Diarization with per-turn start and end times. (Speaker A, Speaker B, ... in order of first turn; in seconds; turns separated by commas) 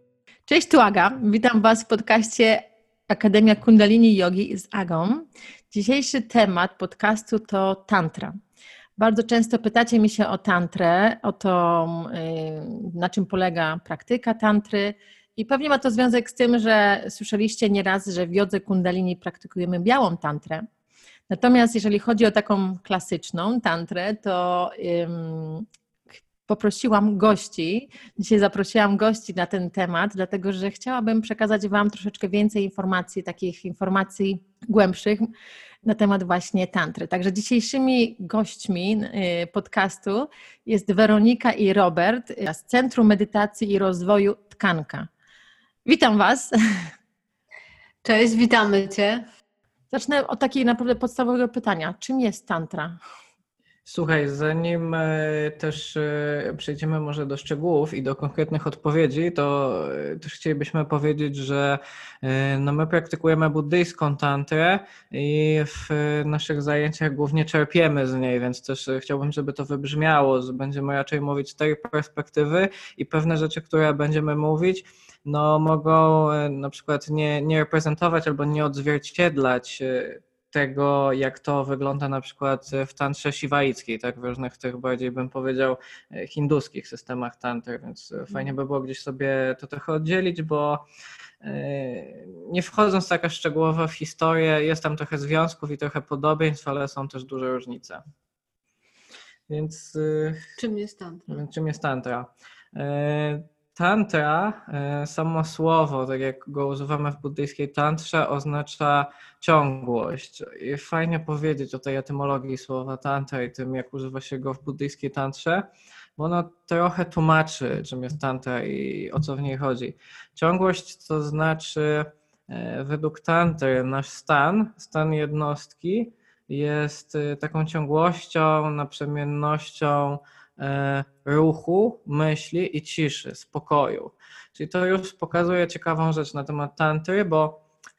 Speaker A: 0.5-8.4, Speaker A: 9.0-20.7, Speaker A: 21.3-25.7, Speaker A: 26.4-35.3, Speaker A: 35.8-45.1, Speaker A: 45.9-46.9, Speaker B: 48.0-49.2, Speaker A: 49.9-53.0, Speaker C: 53.9-90.8, Speaker C: 91.4-98.0, Speaker C: 99.5-100.5, Speaker B: 100.6-101.4, Speaker C: 101.3-137.6